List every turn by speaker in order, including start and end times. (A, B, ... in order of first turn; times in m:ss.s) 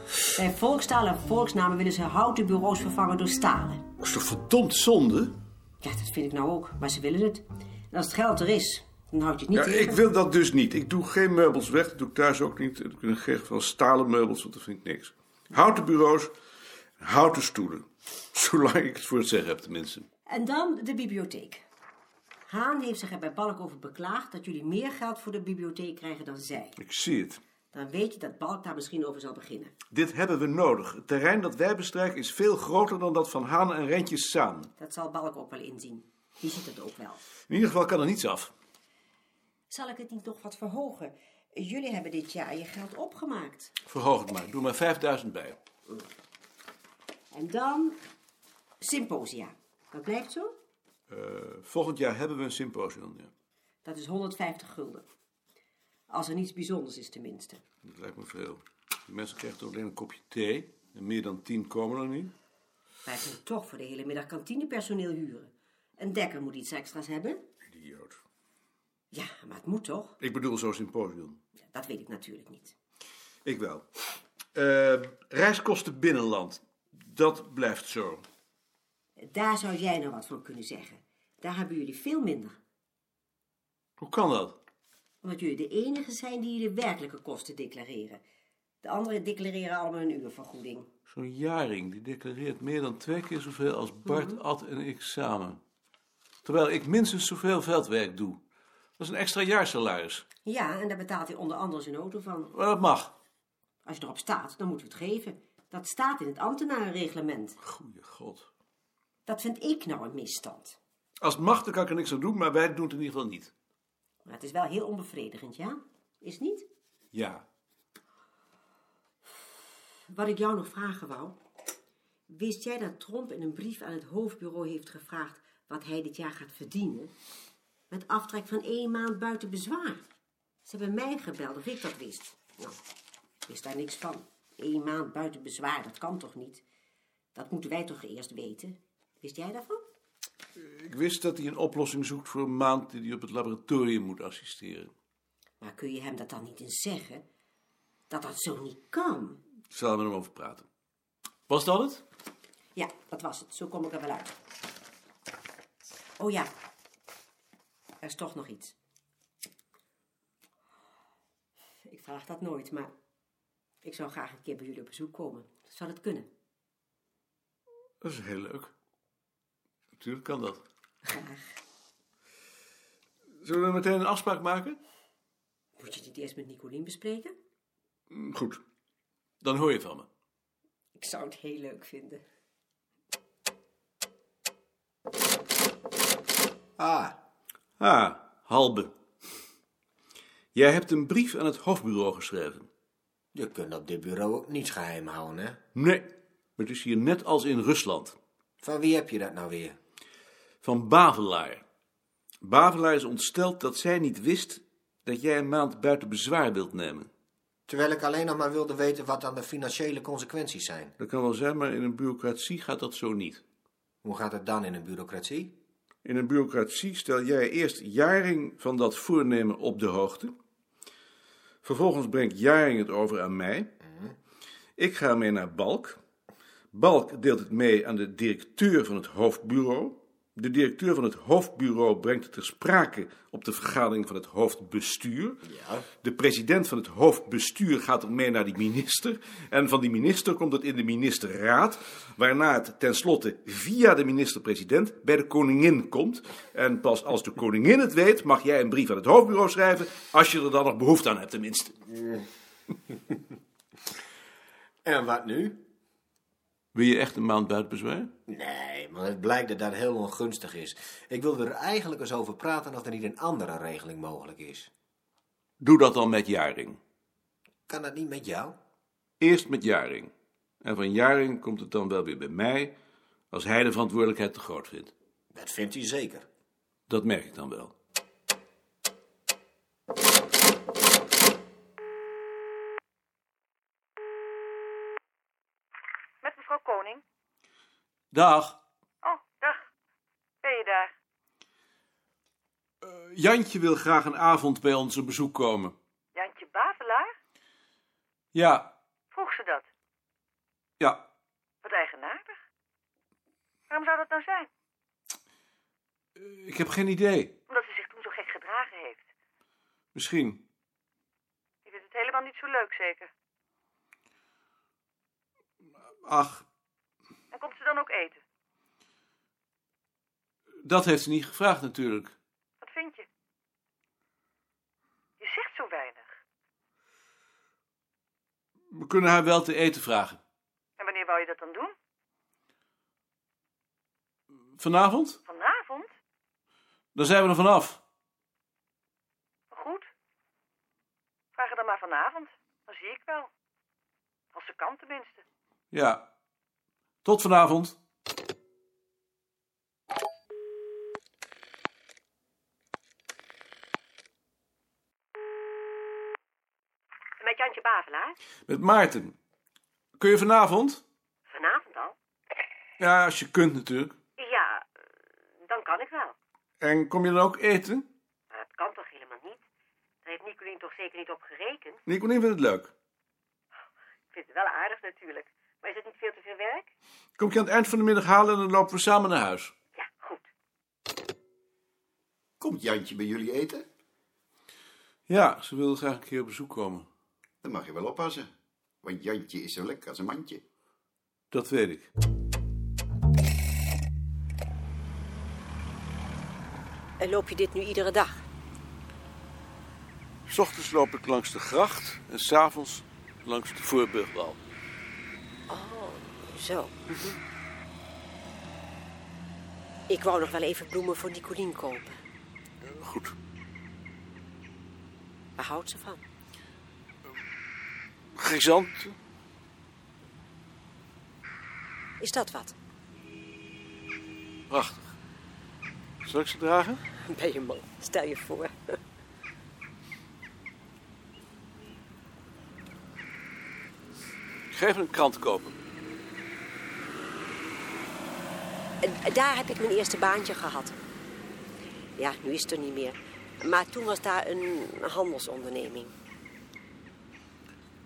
0:00.3-0:03.8 A
0:04.0-0:05.4 B
0:05.8-0:10.0 A
0:09.5-0:16.3 B
0:17.0-0:20.1 B
0:20.3-0:21.6 A
0:22.5-0:26.8 A
0:26.8-0:27.4 B
0:27.7-0:29.7 A
0:29.9-0:34.7 B
0:34.8-0:37.2 A
0:37.5-0:38.5 B
0:39.7-0:43.7 A
0:43.8-0:45.6 B
0:47.3-0:48.0 A
0:48.8-0:50.5 A
0:51.1-0:53.3 B
0:53.8-0:55.0 A
0:56.1-0:57.6 A
0:57.8-1:02.3 B
1:03.0-1:07.4 A
1:07.7-1:08.2 B
1:09.1-1:10.2 A
1:10.2-1:11.4 B
1:11.7-1:12.7 A
1:13.4-1:13.8 B
1:14.5-1:18.2 B
1:19.2-1:22.6 A
1:24.0-1:24.6 B
1:25.2-1:28.2 A
1:28.8-1:30.9 A
1:31.1-1:35.6 B
1:34.1-1:34.4 A
1:36.4-1:38.4 B
1:39.0-1:40.2 B
1:40.4-1:42.5 A
1:42.5-1:43.1 B
1:43.8-1:47.6 A
1:47.6-1:48.5 B
1:49.2-1:50.8 A
1:51.2-1:53.5 B
1:54.2-1:56.6 A
1:57.1-1:57.4 B
2:00.1-2:01.4 A
2:02.3-2:07.1 A
2:07.9-2:10.0 A
2:10.6-2:12.8 A
2:13.4-2:16.6 A
2:17.3-2:19.8 A
2:20.6-2:24.9 B
2:25.6-2:27.2 A
2:28.1-2:29.4 A
2:29.7-2:30.6 B
2:31.5-2:32.0 B
2:32.8-2:34.3 A
2:36.2-2:36.5 A
2:38.0-2:38.7 A
2:41.8-2:42.9 A
2:43.8-2:46.3 A
2:48.0-2:48.7 B
2:50.0-2:50.6 B
2:51.0-2:51.4 A
2:53.4-2:54.8 B
2:55.8-2:57.3 A
2:58.1-2:58.6 B
2:59.4-3:00.1 B
3:01.0-3:02.2 A
3:06.8-3:07.2 C
3:07.8-3:08.9 B
3:10.5-3:12.7 B
3:13.3-3:15.6 C
3:15.7-3:18.2 B
3:18.6-3:19.8 C
3:20.6-3:21.6 B
3:22.4-3:27.1 B
3:27.7-3:30.9 C
3:31.0-3:33.4 B
3:34.0-3:35.5 C
3:36.0-3:40.3 B
3:41.6-3:43.7 B
3:43.8-3:44.1 C
3:44.8-3:46.0 B
3:46.7-3:55.4 B
3:55.4-3:55.9 C
3:56.0-4:11.8 B
4:14.8-4:15.6 C
4:16.7-4:18.1 B
4:18.3-4:24.7 C
4:25.6-4:26.8 B
4:27.7-4:28.5 C
4:29.2-4:30.1 B
4:30.6-4:32.7 B
4:33.3-4:34.9 B
4:35.3-4:36.2 C
4:36.9-4:37.7 B
4:46.2-4:47.0 D
4:48.1-4:48.6 B
4:49.0-4:49.6 D
4:50.4-4:50.9 D
4:52.8-4:55.8 B
4:56.1-4:57.1 D
4:58.3-4:58.7 B
4:59.1-4:59.7 D
5:01.6-5:02.4 D
5:03.7-5:04.5 D
5:06.2-5:07.3 B
5:07.5-5:09.0 D
5:09.9-5:10.4 B
5:11.6-5:13.1 D
5:16.0-5:16.4 B
5:17.3-5:18.2 D
5:20.6-5:22.1 B
5:22.6-5:23.0 D
5:25.2-5:26.1 D
5:28.7-5:30.2 B
5:30.8-5:31.7 D
5:34.6-5:35.2 B
5:35.3-5:35.9 D
5:36.9-5:37.8 B
5:39.5-5:39.9 D
5:41.3-5:43.3 D
5:44.3-5:45.2 D
5:45.7-5:46.0 B
5:47.0-5:47.8 B
5:57.2-5:58.2 A
5:58.5-5:59.1 B
6:00.0-6:00.8 B
6:01.3-6:02.0 A
6:02.8-6:03.9 B
6:04.2-6:04.7 A
6:05.5-6:06.2 A
6:06.6-6:07.9 B
6:08.3-6:09.4 A
6:10.0-6:11.8 A
6:11.9-6:12.7 B
6:14.1-6:16.7 A
6:17.2-6:19.5 B
6:19.7-6:20.3 A
6:22.4-6:23.7 E
6:25.1-6:26.9 B
6:27.4-6:28.3 E
6:28.8-6:30.4 E
6:31.3-6:31.9 B
6:37.0-6:38.3 A
6:40.3-6:44.4 B
6:45.5-6:47.2 A
6:49.9-6:52.0 A
6:52.6-6:53.1 B
6:55.4-6:56.0 A
6:58.2-6:59.0 B
7:02.0-7:02.6 A
7:04.5-7:04.9 B
7:06.0-7:06.8 B
7:07.0-7:08.5 A
7:14.5-7:15.6 B
7:18.8-7:20.8 A
7:22.0-7:25.9 A